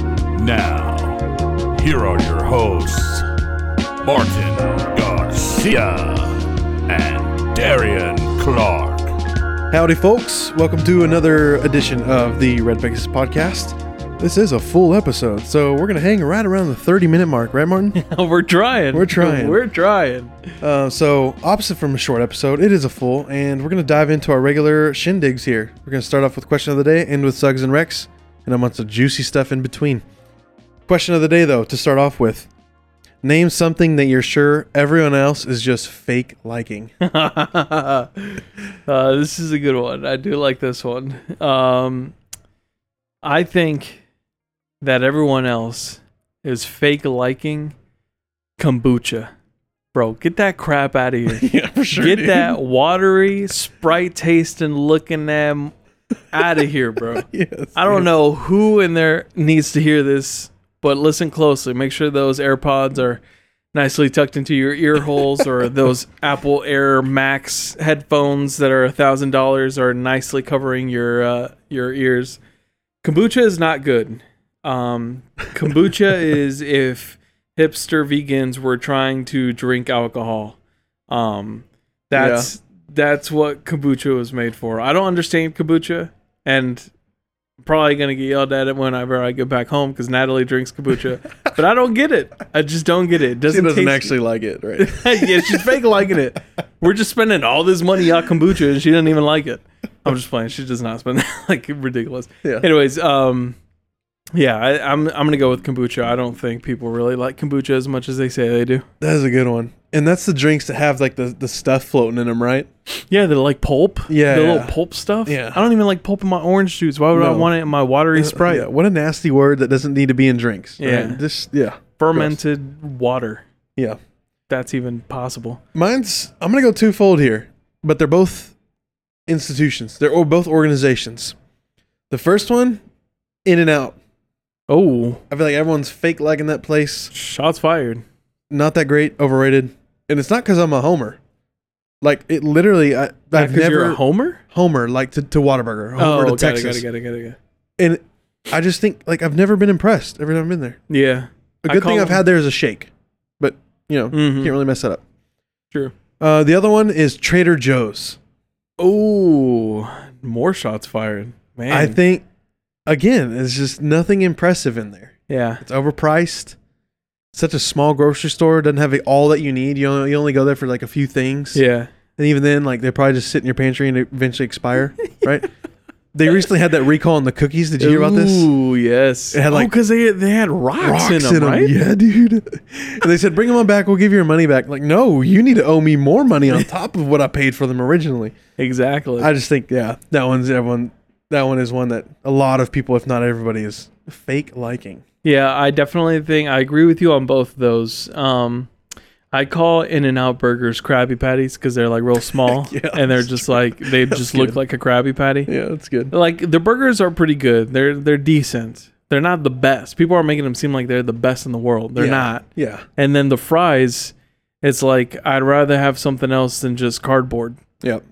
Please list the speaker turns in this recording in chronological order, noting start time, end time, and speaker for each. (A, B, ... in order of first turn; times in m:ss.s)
0:00.3-0:01.2 A
0:01.8-0:03.2 A
0:04.0-0:09.1 A
0:09.7-0:18.0 B
0:17.9-0:20.4 C
0:18.9-0:19.6 B
0:20.6-0:30.0 B
0:30.9-0:32.5 B
0:33.2-0:36.9 B
0:37.0-0:42.1 C
0:43.2-0:44.0 C
0:44.8-0:47.7 C
0:48.6-0:49.3 C
0:49.9-0:55.7 C
0:51.3-0:52.6 B
0:56.3-1:03.2 C
0:57.2-0:58.1 B
1:03.7-1:12.4 C
1:05.2-1:05.5 B
1:13.0-1:20.6 C
1:21.1-1:26.9 C
1:22.1-1:22.5 B
1:27.6-1:34.2 C
1:33.5-1:35.8 B
1:34.8-1:43.6 C
1:44.3-1:48.8 C
1:49.0-1:52.7 B
1:52.9-1:58.7 C
1:54.1-1:55.6 B
1:57.1-1:57.5 B
1:58.1-2:02.4 B
2:00.8-2:01.2 C
2:02.0-2:03.4 C
2:04.5-2:05.6 C
2:05.7-2:08.5 B
2:09.3-2:11.4 B
2:12.1-2:12.8 B
2:13.4-2:14.0 B
2:14.7-2:15.2 C
2:15.3-2:17.1 B
2:17.1-2:18.0 C
2:18.5-2:21.2 B
2:22.0-2:24.0 B
2:23.3-2:24.4 C
2:24.5-2:26.8 B
2:26.0-2:27.4 C
2:27.8-2:30.8 B
2:30.9-2:32.2 C
2:31.6-2:35.0 B
2:34.1-2:34.6 C
2:36.2-2:38.2 B
2:38.8-2:42.0 C
2:41.7-2:42.2 B
2:42.8-2:46.6 B
2:45.3-2:45.6 C
2:47.3-2:51.6 B
2:51.5-2:51.9 C
2:52.2-2:55.5 B
2:56.1-2:58.5 B
2:57.8-3:01.7 C
2:59.3-2:59.7 B
3:00.8-3:08.3 B
3:08.6-3:09.3 C
3:09.2-3:15.0 B
3:15.2-3:18.7 C
3:19.3-3:25.5 C
3:22.3-3:24.6 B
3:25.5-3:26.1 B
3:26.1-3:32.4 C
3:32.0-3:32.8 B
3:33.0-3:37.6 C